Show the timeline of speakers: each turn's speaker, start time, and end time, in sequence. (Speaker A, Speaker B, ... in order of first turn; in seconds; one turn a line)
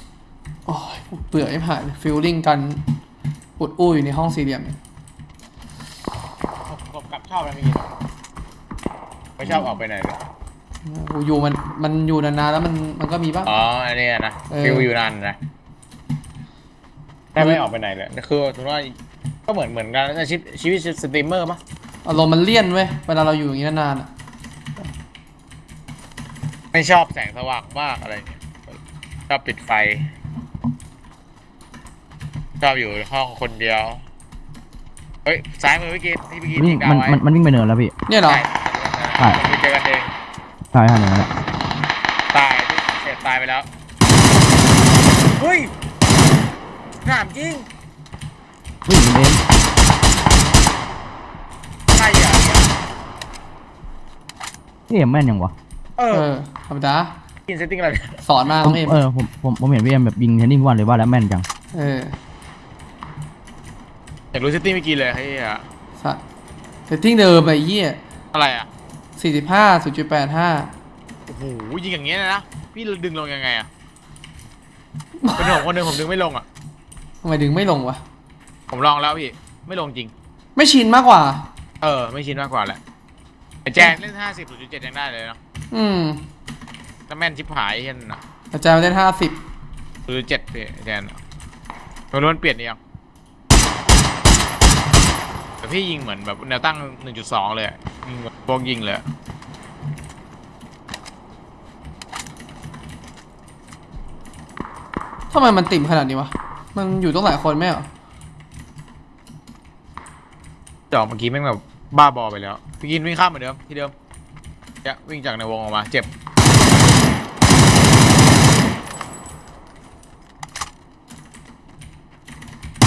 Speaker A: 0.7-2.8
Speaker A: 3.6-4.8
Speaker B: 6.7-7.9
Speaker B: 9.4-10.2
Speaker A: 10.8-13.5
Speaker B: 13.4-15.4
Speaker A: 14.5-14.8
Speaker B: 17.3-18.9
Speaker B: 19.5-21.6
Speaker A: 22.0-24.1
Speaker B: 26.7-28.8
Speaker B: 29.3-30.1
Speaker B: 32.6-34.0
Speaker B: 35.2-37.2
Speaker C: 36.5-37.9
Speaker A: 38.1-38.4
Speaker B: 38.2-40.1
Speaker C: 40.7-41.3
Speaker B: 42.3-43.6
Speaker B: 45.4-45.7
Speaker B: 47.0-47.6
Speaker C: 48.9-49.4
Speaker B: 51.9-52.7
Speaker C: 54.9-55.5
Speaker B: 56.0-56.3
Speaker A: 56.1-57.1
Speaker B: 57.5-58.2
Speaker A: 58.2-59.0
Speaker C: 58.6-61.5
Speaker A: 61.7-62.1
Speaker B: 64.3-65.6
Speaker A: 66.9-68.0
Speaker B: 68.3-68.7
Speaker A: 69.2-70.7
Speaker B: 71.3-73.7
Speaker A: 75.2-75.6
Speaker B: 75.3-76.5
Speaker A: 77.2-78.0
Speaker B: 78.7-80.1
Speaker A: 80.5-81.4
Speaker B: 81.8-82.8
Speaker B: 83.6-85.4
Speaker A: 85.7-86.2
Speaker B: 87.1-88.2
Speaker A: 88.5-89.4
Speaker B: 90.1-91.2
Speaker B: 92.1-92.8
Speaker B: 95.6-99.0
Speaker A: 105.3-107.9
Speaker B: 110.9-113.9
Speaker B: 114.8-116.1